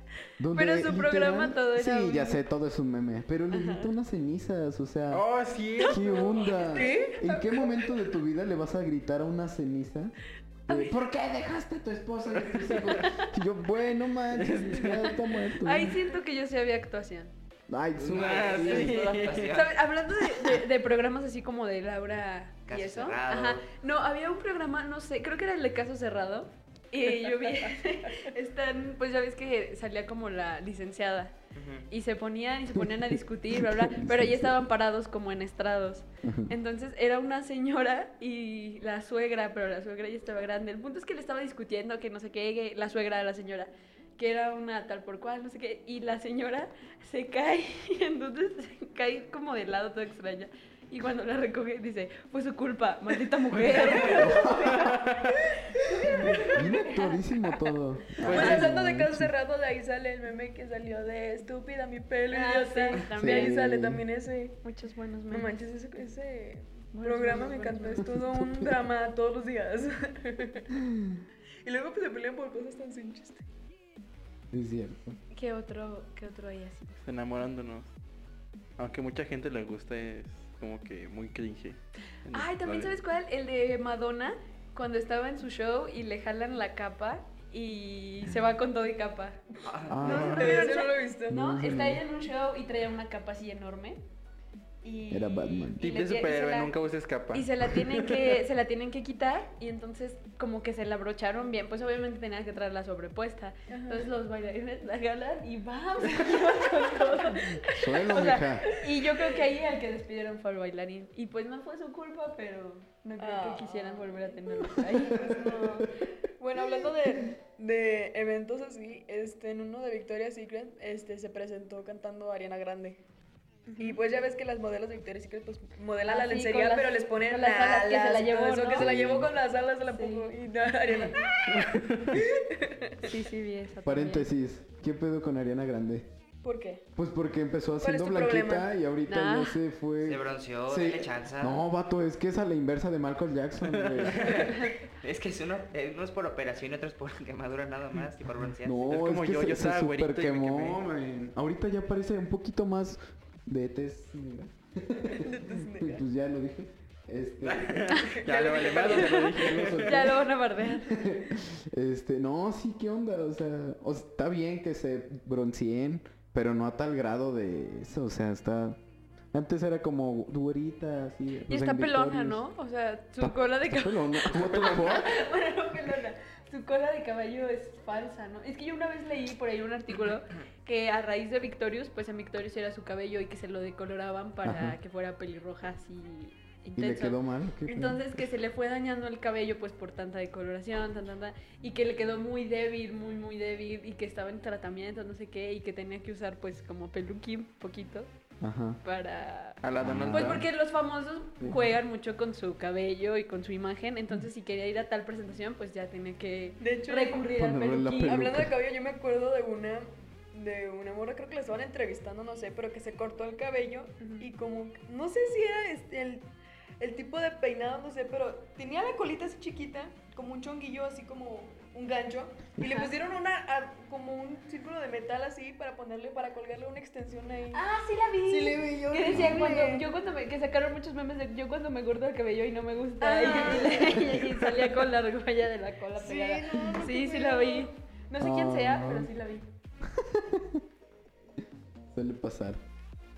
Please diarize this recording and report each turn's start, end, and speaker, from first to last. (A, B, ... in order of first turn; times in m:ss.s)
0:00.4-0:10.2 A
0:00.5-0:02.4 B
0:03.5-0:03.9 B
0:05.1-0:06.6 C
0:06.0-0:07.1 B
0:06.5-0:07.9 D
0:10.7-0:16.0 A
0:12.4-0:13.1 C
0:14.3-0:15.2 C
0:15.6-0:17.3 B
0:17.7-0:19.1 A
0:18.0-0:19.6 C
0:18.1-0:19.8 E
0:19.4-0:31.3 B
0:22.7-0:23.7 E
0:31.5-0:31.9 E
0:31.9-0:55.1 B
0:32.7-0:34.7 A
0:36.2-0:36.5 A
0:54.0-0:54.8 A
0:54.7-0:55.3 C
0:55.5-0:56.7 D
0:55.8-0:57.2 B
0:56.1-0:59.3 A
0:58.2-1:04.6 D
0:58.2-0:58.8 C
1:02.3-1:03.6 B
1:03.1-1:04.0 A
1:04.6-1:05.7 B
1:05.3-1:10.7 D
1:06.9-1:08.1 B
1:08.2-1:08.7 A
1:10.8-1:11.2 A
1:11.6-1:13.4 D
1:14.5-1:15.2 A
1:15.3-1:17.0 B
1:17.0-1:17.9 C
1:18.8-1:22.9 C
1:22.3-1:29.4 B
1:29.6-1:30.0 E
1:29.9-1:30.7 A
1:30.0-1:34.0 B
1:30.0-1:30.5 C
1:30.1-1:31.4 D
1:31.3-1:32.0 A
1:34.8-1:36.7 B
1:35.1-1:35.8 A
1:35.8-1:38.4 C
1:37.3-1:55.8 B
1:43.7-1:44.1 D
1:46.8-1:47.3 D
1:47.6-1:48.7 A
1:49.0-1:49.4 D
1:53.2-2:03.0 D
1:55.4-1:55.7 A
2:03.7-2:04.0 B
2:03.8-2:13.1 D
2:06.0-2:08.9 B
2:08.7-2:09.3 A
2:09.9-2:10.3 B
2:11.6-2:12.2 C
2:13.0-2:14.3 B
2:13.8-2:16.1 A
2:16.4-2:16.8 D
2:17.0-2:24.3 A
2:17.8-2:18.7 D
2:19.1-2:19.6 B
2:20.0-2:21.6 E
2:23.6-2:24.6 C
2:24.2-2:28.8 E
2:28.6-2:38.1 A
2:28.9-2:30.8 C
2:35.1-2:36.0 D
2:37.5-2:40.2 C
2:37.9-2:38.2 B
2:38.1-2:39.1 D
2:38.7-2:48.8 A
2:38.8-2:41.0 B
2:49.3-2:52.4 A
2:51.5-3:18.1 B
2:53.2-2:55.1 A
2:54.4-2:55.0 C
3:04.4-3:04.8 A
3:06.8-3:08.2 A
3:18.4-3:18.8 A
3:18.8-3:28.3 B
3:19.6-3:20.4 C
3:19.8-3:20.4 A
3:21.4-3:21.7 A
3:26.6-3:27.3 D
3:27.3-3:28.6 A
3:28.0-3:47.6 D
3:34.0-3:34.2 B
3:42.6-3:42.9 B
3:47.5-3:59.5 B
3:48.2-3:49.9 D
3:49.1-3:49.4 A
3:53.0-3:54.2 D
3:56.0-3:57.7 D
3:58.2-3:59.1 A
3:59.8-4:00.6 A
4:01.9-4:02.6 A